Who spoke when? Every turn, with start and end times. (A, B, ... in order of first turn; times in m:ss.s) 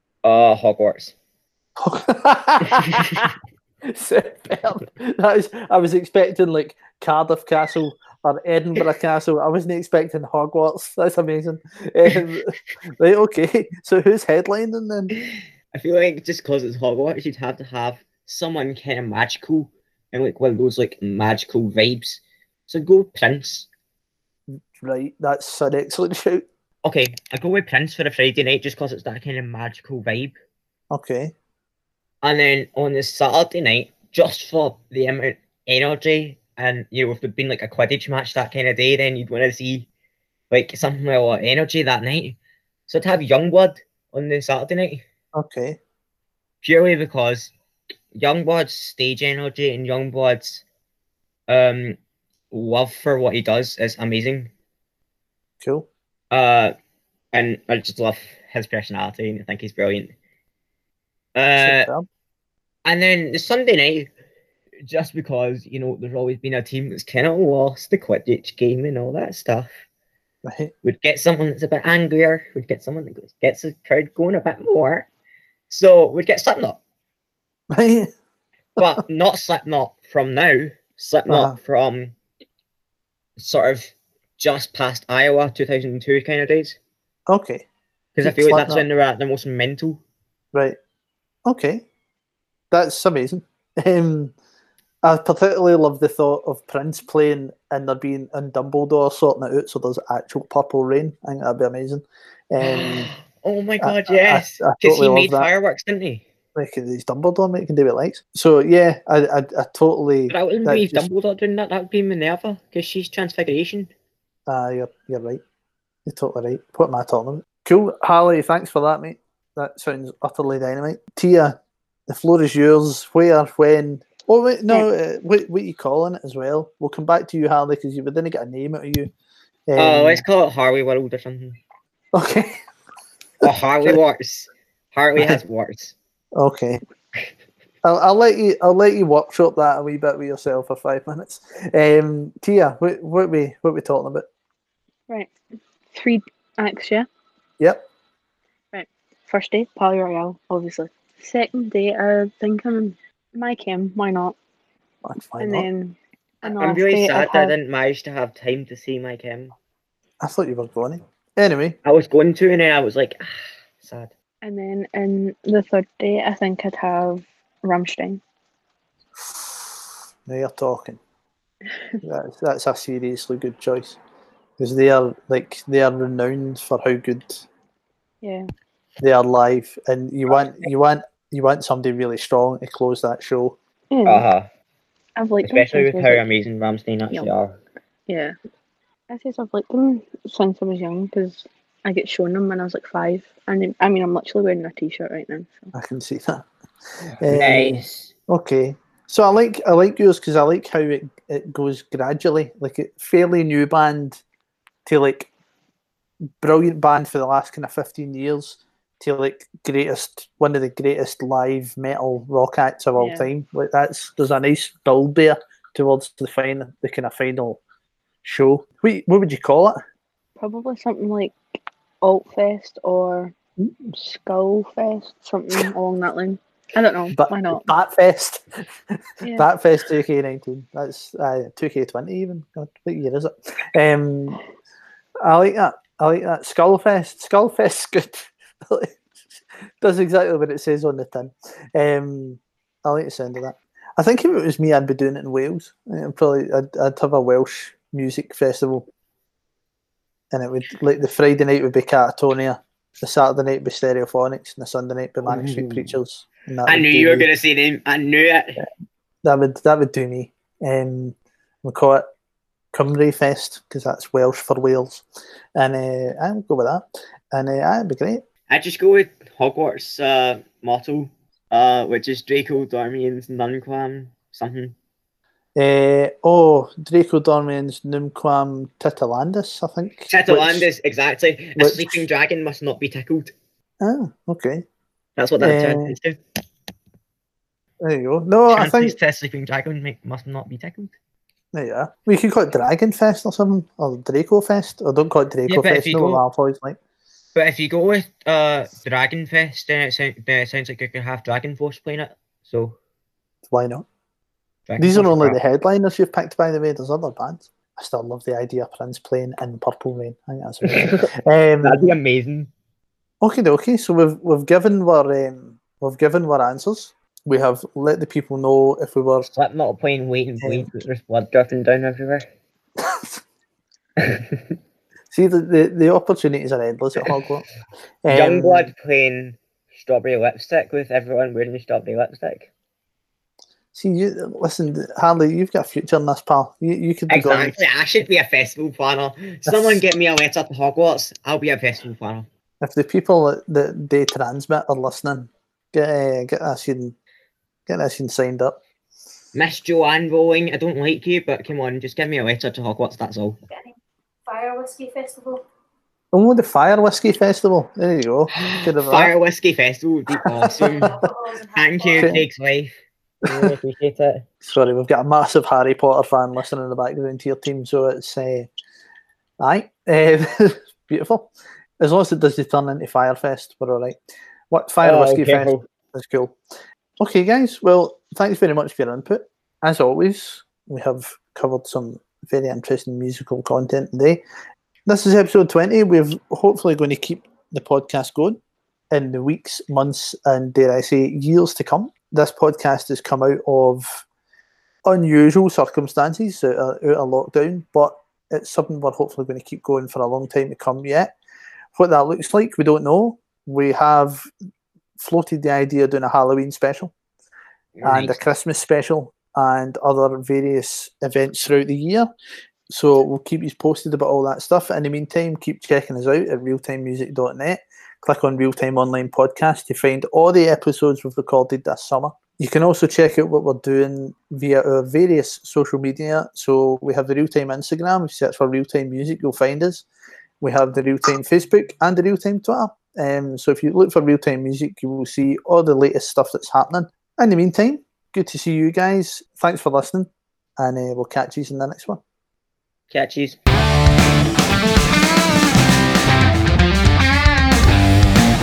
0:00.2-0:01.1 A
0:01.8-0:03.3 B
0:02.8-0:03.2 A
0:03.8-0:15.1 B
0:15.2-0:23.7 A
0:24.5-0:26.5 B
0:26.8-0:30.4 A
0:30.9-0:31.3 B
0:32.2-0:39.9 A
0:40.5-0:42.4 A
0:42.9-0:45.0 A
0:45.4-0:45.8 B
0:46.6-0:47.5 A
0:48.1-0:50.6 A
0:51.5-0:52.0 A
0:52.5-0:54.5 A
0:55.6-0:55.9 B
0:56.3-0:56.7 A
0:57.3-1:00.1 A
1:01.4-1:01.9 A
1:01.6-1:02.1 B
1:02.8-1:04.1 A
1:04.9-1:09.8 A
1:10.4-1:10.7 B
1:10.8-1:15.1 A
1:15.7-1:16.8 A
1:17.7-1:18.1 B
1:18.8-1:22.2 A
1:21.3-1:21.6 B
1:23.4-1:26.8 A
1:27.3-1:27.6 B
1:28.2-1:30.0 A
1:28.2-1:28.8 B
1:31.5-1:31.8 B
1:32.7-1:34.3 B
1:35.0-1:43.1 B
1:42.6-1:46.2 A
1:43.8-1:45.5 B
1:46.6-1:51.1 B
1:50.3-1:53.9 A
1:54.5-1:55.4 B
1:56.1-2:01.6 B
2:02.1-2:09.1 B
2:09.7-2:10.2 B
2:09.8-2:11.6 A
2:12.1-2:12.6 B
2:13.4-2:14.0 B
2:13.4-2:16.0 A
2:15.2-2:15.4 B
2:16.4-2:16.8 B
2:17.8-2:24.3 B
2:25.9-2:27.1 C
2:28.7-2:34.4 C
2:35.0-2:35.7 B
2:35.4-2:37.5 C
2:36.4-2:39.5 A
2:40.2-2:41.8 B
2:41.8-2:44.1 A
2:44.4-2:48.2 C
2:49.2-2:49.6 B
2:50.3-2:51.0 B
2:52.0-2:54.0 B
2:54.6-2:57.5 B
2:58.2-2:58.5 C
2:59.0-3:03.6 B
3:03.9-3:04.3 C
3:04.0-3:04.5 A
3:05.2-3:06.2 C
3:05.4-3:07.6 A
3:08.1-3:08.4 C
3:09.1-3:15.7 C
3:15.7-3:16.5 B
3:17.2-3:24.2 B
3:17.2-3:18.1 A
3:24.9-3:25.3 B
3:26.4-3:37.6 B
3:33.0-3:33.3 C
3:38.2-3:39.8 B
3:40.4-3:41.4 C
3:42.0-3:43.4 C
3:43.9-3:47.7 C
3:47.1-3:54.4 B
3:55.2-3:59.0 B
3:59.8-4:08.9 B
4:10.3-4:17.3 B
4:15.3-4:15.9 A
4:16.7-4:18.6 A
4:19.2-4:22.1 B
4:22.7-4:28.2 B
4:28.5-4:34.8 A
4:35.6-4:40.7 B
4:40.1-4:43.3 A
4:41.6-4:42.0 B
4:43.8-4:44.6 B
4:45.2-4:46.2 A
4:45.4-4:46.0 B
4:47.8-4:49.0 B
4:48.5-4:50.9 A
4:51.5-4:56.8 B
4:55.5-4:56.2 A
4:57.4-5:02.8 A
5:03.5-5:03.8 B
5:04.7-5:05.4 A
5:04.8-5:12.0 B
5:10.6-5:11.1 A
5:11.6-5:12.5 A
5:13.2-5:19.3 B
5:19.3-5:22.3 A
5:20.4-5:20.7 B
5:22.8-5:23.2 B
5:24.0-5:24.6 A
5:25.1-5:27.5 B
5:28.0-5:28.7 B
5:28.1-5:32.5 A
5:33.7-5:37.6 B
5:37.1-5:42.3 A
5:39.5-5:39.8 B
5:42.6-5:47.0 B
5:47.7-5:48.6 B
5:49.3-5:53.4 A
5:54.3-5:55.4 D
5:56.1-5:59.1 B
5:58.4-6:02.7 A
6:00.2-6:01.1 B
6:00.9-6:02.2 D
6:02.0-6:02.2 B
6:03.2-6:04.3 A
6:03.3-6:03.5 B
6:04.4-6:08.5 B
6:09.4-6:14.0 B
6:14.5-6:16.4 B
6:14.8-6:15.7 A
6:17.0-6:24.2 B
6:24.9-6:28.4 B
6:28.9-6:34.0 B
6:34.8-6:41.2 B
6:41.8-6:44.3 B
6:45.0-6:46.9 B
6:47.8-6:48.2 A
6:47.8-6:52.1 B
6:52.7-7:09.9 B
7:10.4-7:22.0 B
7:22.9-7:23.4 A